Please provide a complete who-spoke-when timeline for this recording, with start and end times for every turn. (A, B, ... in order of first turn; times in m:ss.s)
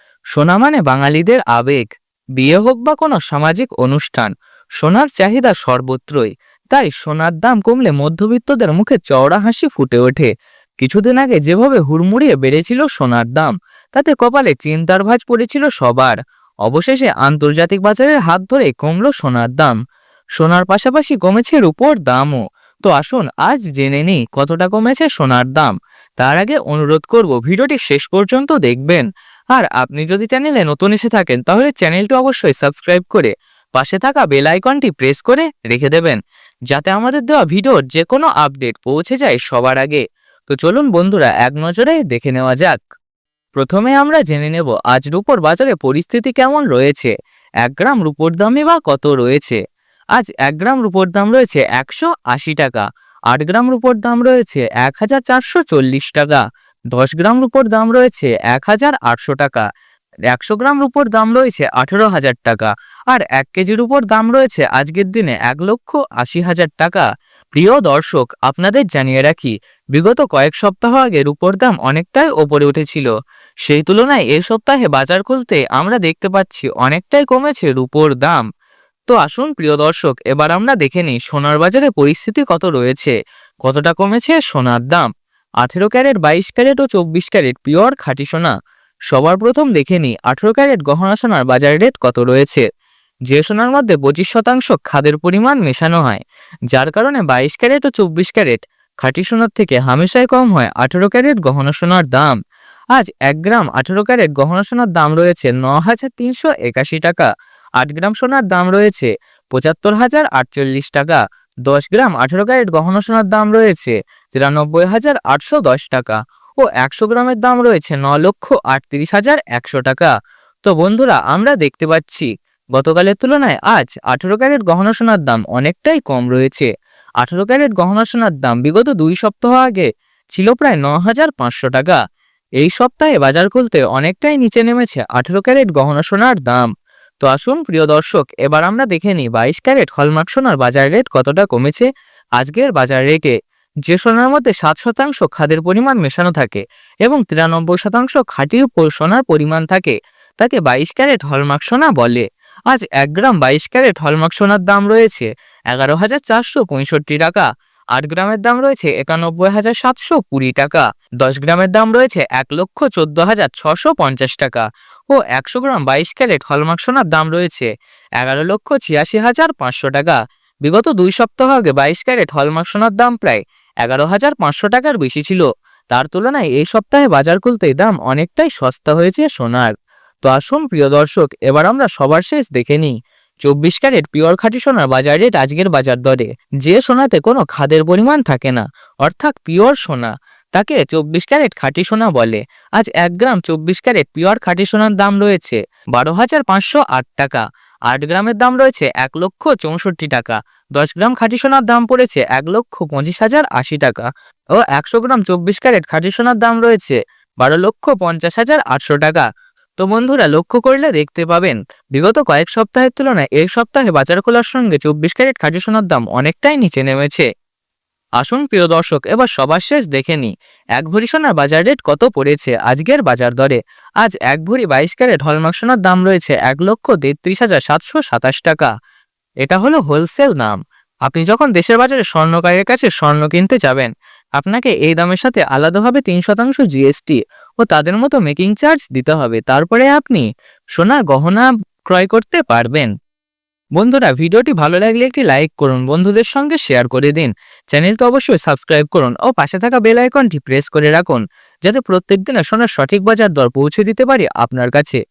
0:00.3-0:01.8 A
0:02.4-0:10.3 A
0:10.8-0:19.8 A
0:20.4-0:36.2 A
0:36.7-0:42.8 A
0:43.6-0:47.1 A
0:47.6-0:49.6 A
0:50.2-0:59.6 A
1:00.3-1:13.1 A
1:13.6-1:18.4 A
1:19.1-1:25.1 A
1:25.6-1:28.5 A
1:29.1-1:32.6 A
1:33.3-1:42.4 A
1:42.9-1:47.3 A
1:47.8-2:00.1 A
2:00.6-2:06.7 A
2:07.2-2:12.0 A
2:12.6-2:21.9 A
2:22.4-2:23.3 A
2:23.8-2:47.7 A
2:48.2-2:59.7 A
3:00.2-3:29.2 A
3:29.8-3:37.2 A
3:38.2-3:48.7 A
3:49.4-4:00.2 A
4:00.8-4:02.9 A
4:03.8-4:15.0 A